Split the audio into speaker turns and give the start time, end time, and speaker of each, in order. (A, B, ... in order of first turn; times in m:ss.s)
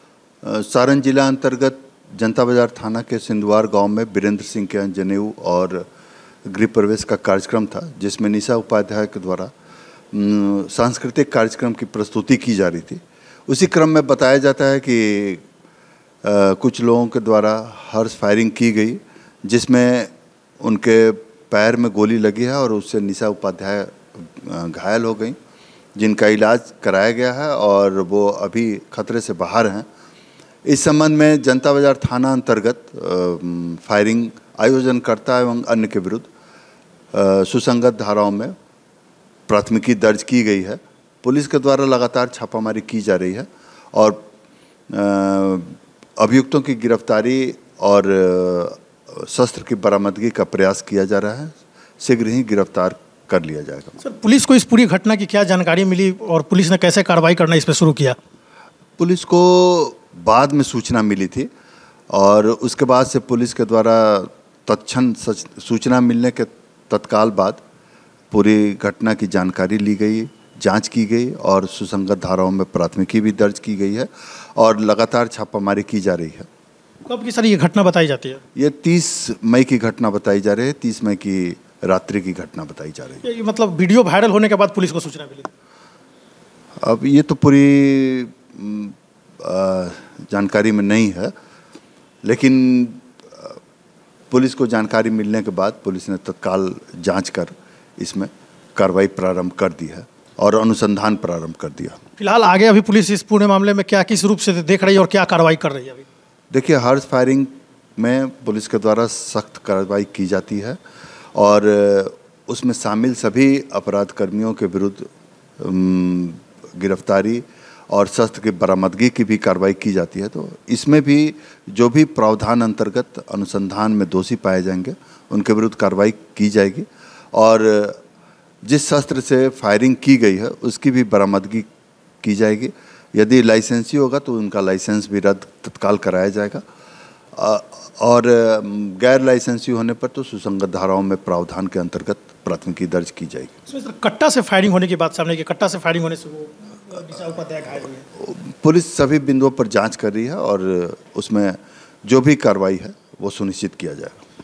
0:00.4-0:05.9 A
0:06.4-0:09.5 A
0:10.1-0:15.4 A
0:16.2-0:20.1 A
0:20.6-0:25.3 A
0:26.0-0:29.8 A
0:30.6-0:36.3 A
0:37.1-0:38.5 A
0:39.5-0:44.2 A
0:44.9-0:54.0 A
0:54.0-0:58.2 B
0:59.0-1:01.5 A
1:02.1-1:07.6 A
1:08.3-1:16.5 A
1:17.1-1:18.4 B
1:18.6-1:23.2 A
1:23.2-1:25.5 B
1:26.8-1:31.3 A
1:32.2-1:33.6 A
1:34.3-1:42.0 A
1:42.2-1:46.0 B
1:46.5-1:50.8 A
1:51.3-2:08.0 A
2:08.6-2:11.6 A
2:12.2-2:16.6 A
2:17.3-2:23.5 A
2:23.7-2:28.0 B
2:28.1-2:34.2 A